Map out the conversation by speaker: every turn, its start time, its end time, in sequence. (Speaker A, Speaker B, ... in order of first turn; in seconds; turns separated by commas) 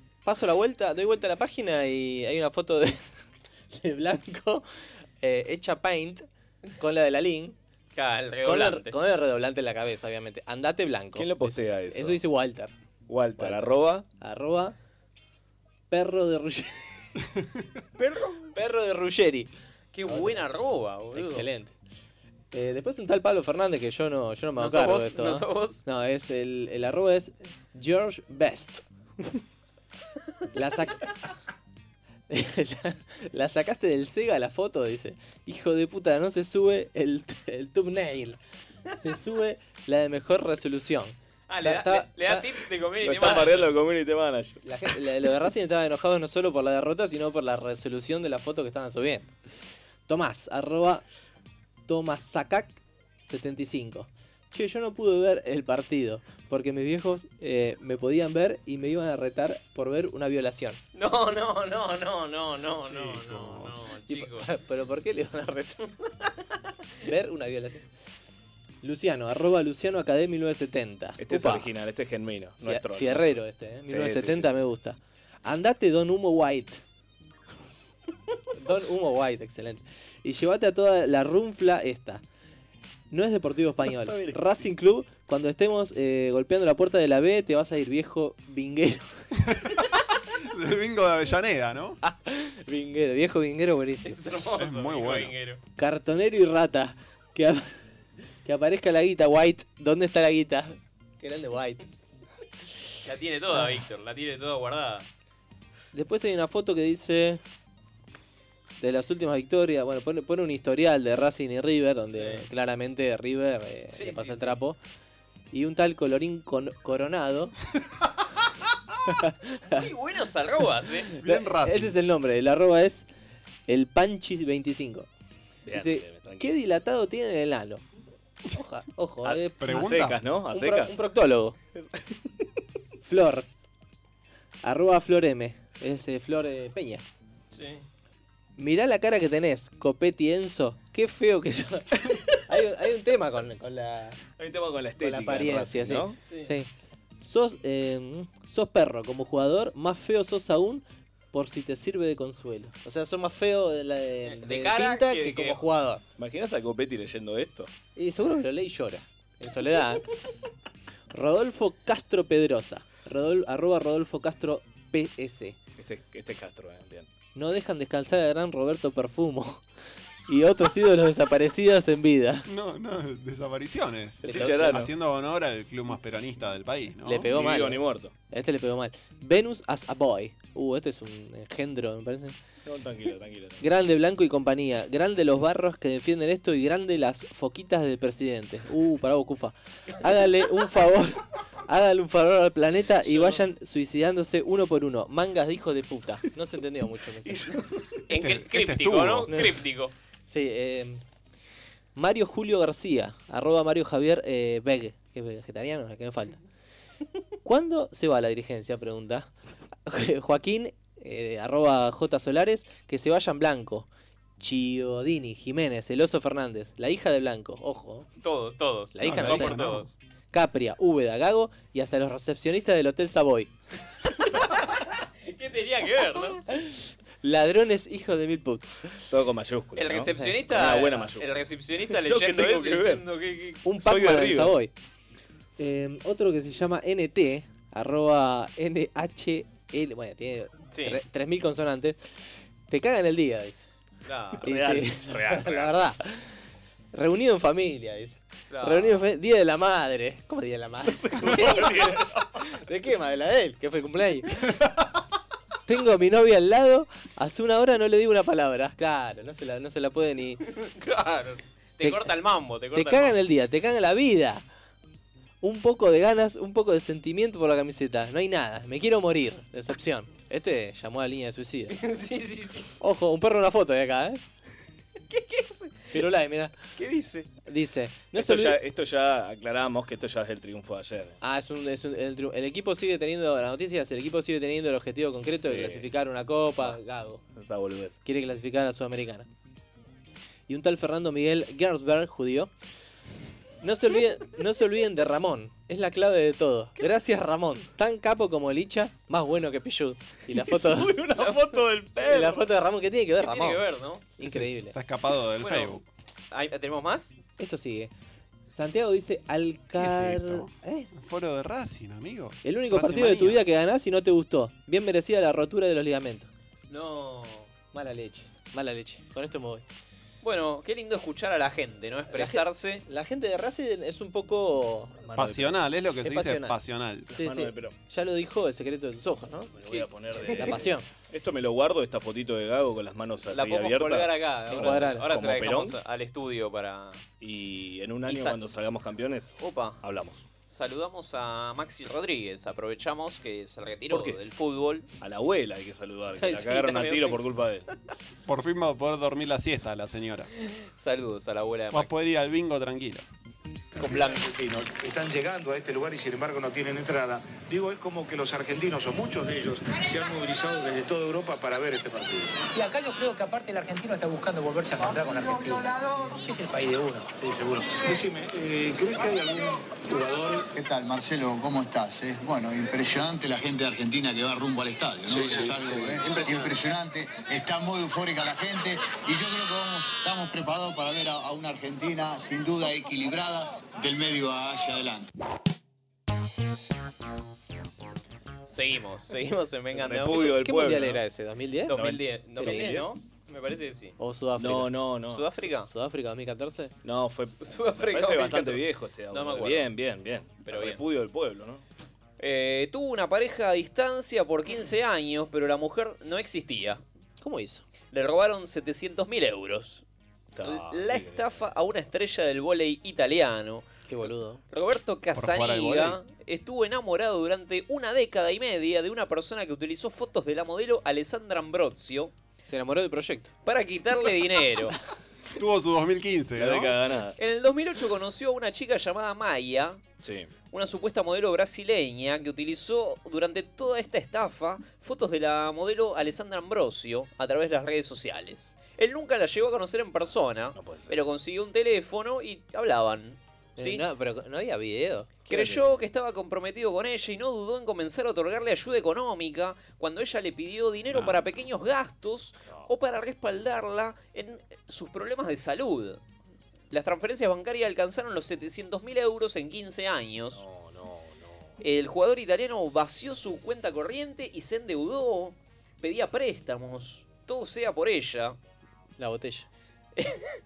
Speaker A: 0.2-3.0, Speaker A: 3.7-4.6, Speaker A: 5.2-6.3, Speaker A: 6.8-7.5, Speaker B: 8.0-9.0, Speaker A: 8.4-12.7, Speaker C: 11.1-12.2, Speaker C: 13.1-14.1, Speaker A: 13.4-14.7, Speaker A: 15.9-16.8, Speaker B: 18.0-18.5, Speaker A: 18.5-19.5, Speaker B: 19.9-21.5, Speaker A: 20.1-20.5, Speaker A: 21.1-21.7, Speaker A: 22.5-28.8, Speaker B: 24.6-25.8, Speaker A: 30.5-31.1, Speaker A: 32.3-38.4, Speaker A: 38.9-42.7, Speaker B: 41.5-43.7, Speaker C: 43.0-44.6, Speaker A: 44.6-49.3, Speaker A: 50.1-51.0, Speaker A: 51.9-60.8, Speaker B: 60.9-64.5, Speaker D: 62.8-63.8, Speaker A: 64.1-65.8, Speaker A: 67.0-67.8, Speaker A: 68.8-71.7, Speaker C: 71.2-74.6, Speaker A: 72.6-76.8, Speaker A: 78.6-82.2, Speaker A: 83.1-89.2, Speaker C: 83.8-84.5, Speaker D: 89.5-89.7, Speaker D: 90.5-92.0, Speaker A: 92.0-94.5, Speaker B: 94.0-95.6, Speaker D: 94.5-95.3, Speaker A: 95.8-97.7, Speaker A: 98.4-101.8, Speaker B: 103.0-105.1, Speaker A: 103.5-103.8, Speaker A: 105.9-107.4, Speaker A: 108.8-114.8, Speaker B: 112.1-112.5, Speaker B: 113.9-114.6, Speaker A: 115.5-117.5, Speaker A: 119.2-119.9, Speaker B: 119.7-121.1, Speaker A: 121.1-123.0, Speaker D: 121.2-122.0, Speaker A: 123.7-125.1, Speaker C: 125.7-126.5, Speaker A: 125.7-127.8, Speaker A: 128.5-131.6, Speaker C: 129.2-131.0, Speaker D: 129.6-130.2, Speaker C: 131.8-132.1, Speaker A: 133.0-133.5, Speaker A: 134.6-137.0, Speaker B: 137.5-137.8, Speaker A: 138.6-141.9, Speaker A: 142.5-144.2, Speaker C: 144.3-146.2, Speaker A: 145.0-156.0, Speaker B: 146.2-146.5, Speaker B: 154.2-155.6, Speaker C: 156.2-157.7, Speaker A: 157.9-160.0, Speaker A: 161.1-165.6, Speaker C: 165.8-167.1, Speaker A: 167.3-169.6, Speaker A: 170.3-172.5, Speaker D: 172.5-177.3, Speaker A: 174.2-174.9, Speaker C: 174.2-174.9, Speaker A: 177.0-182.4, Speaker C: 177.3-178.1, Speaker C: 182.6-183.7, Speaker A: 183.6-197.6, Speaker C: 193.1-193.4, Speaker B: 198.1-199.9, Speaker D: 198.1-199.3, Speaker A: 199.3-199.6, Speaker A: 200.3-201.0, Speaker A: 201.9-206.4, Speaker A: 207.4-209.3, Speaker A: 209.9-213.9, Speaker A: 214.4-218.1, Speaker B: 218.2-219.9, Speaker A: 218.9-219.7, Speaker D: 219.0-219.9, Speaker A: 220.3-223.5, Speaker B: 225.2-226.4, Speaker A: 226.5-228.9, Speaker C: 229.1-233.0, Speaker B: 229.8-233.6, Speaker A: 233.6-234.7, Speaker C: 233.8-234.6, Speaker A: 235.6-242.0, Speaker B: 240.7-241.0, Speaker A: 242.7-243.6, Speaker B: 244.1-244.5, Speaker C: 244.4-245.8, Speaker A: 244.4-246.3, Speaker A: 246.9-254.4, Speaker B: 248.5-249.0, Speaker C: 250.9-252.2, Speaker A: 255.7-260.4, Speaker B: 260.5-263.2, Speaker A: 261.8-262.2, Speaker A: 262.7-264.4, Speaker A: 265.4-271.7, Speaker B: 271.7-272.7, Speaker A: 272.8-274.2, Speaker B: 275.1-276.1, Speaker A: 275.9-276.5, Speaker B: 276.8-277.3, Speaker A: 277.4-278.6, Speaker C: 278.1-281.2, Speaker A: 281.2-287.2, Speaker C: 285.4-285.9, Speaker C: 287.3-288.0, Speaker A: 288.0-289.3, Speaker A: 290.5-292.5, Speaker A: 293.6-301.0, Speaker C: 300.4-302.4, Speaker B: 301.1-301.6, Speaker A: 302.0-303.6, Speaker B: 303.2-304.1, Speaker A: 304.2-304.7, Speaker D: 304.2-305.8, Speaker B: 305.3-305.8, Speaker B: 306.3-307.1, Speaker A: 307.4-307.9, Speaker A: 308.5-310.9, Speaker D: 309.8-313.4, Speaker A: 312.4-316.3, Speaker B: 316.7-317.5, Speaker A: 317.7-319.6, Speaker B: 320.2-322.8, Speaker A: 322.1-325.0, Speaker C: 325.0-325.5, Speaker D: 325.1-327.1, Speaker A: 326.0-326.6, Speaker A: 327.1-330.9, Speaker C: 327.1-327.8, Speaker C: 329.6-335.8, Speaker B: 329.6-330.6, Speaker B: 333.3-337.0, Speaker A: 334.5-335.1, Speaker C: 337.2-340.2, Speaker B: 338.1-338.4, Speaker B: 339.4-339.8, Speaker B: 340.5-344.9, Speaker C: 343.9-344.2, Speaker C: 345.0-347.7, Speaker A: 346.1-346.9, Speaker B: 346.5-347.1, Speaker D: 348.3-350.3, Speaker B: 350.4-352.0, Speaker D: 351.7-353.0, Speaker E: 353.8-362.4, Speaker B: 353.8-354.2, Speaker F: 362.5-367.1, Speaker E: 367.2-370.5, Speaker G: 370.5-385.1, Speaker E: 375.0-376.6, Speaker B: 388.5-390.4, Speaker C: 389.7-391.0, Speaker A: 390.3-392.9, Speaker B: 391.7-393.9, Speaker C: 391.7-392.9, Speaker A: 394.0-394.7, Speaker C: 394.4-395.3, Speaker B: 395.1-395.7, Speaker A: 395.6-396.7, Speaker C: 396.8-401.6, Speaker B: 397.4-399.7, Speaker B: 400.4-400.8, Speaker B: 402.2-406.8, Speaker A: 407.2-407.6, Speaker B: 407.9-409.8, Speaker C: 410.4-411.5, Speaker B: 410.4-422.1, Speaker A: 413.9-414.4, Speaker D: 415.1-416.0, Speaker A: 422.4-423.3, Speaker B: 423.4-424.8, Speaker D: 425.4-426.7, Speaker C: 426.4-427.2, Speaker B: 427.2-429.8, Speaker C: 430.0-430.3, Speaker B: 430.5-443.9, Speaker C: 440.5-441.0, Speaker A: 443.6-445.2, Speaker C: 445.2-445.8, Speaker B: 445.3-456.0, Speaker B: 456.7-460.4, Speaker C: 460.3-461.5, Speaker B: 461.6-468.4, Speaker A: 469.0-469.5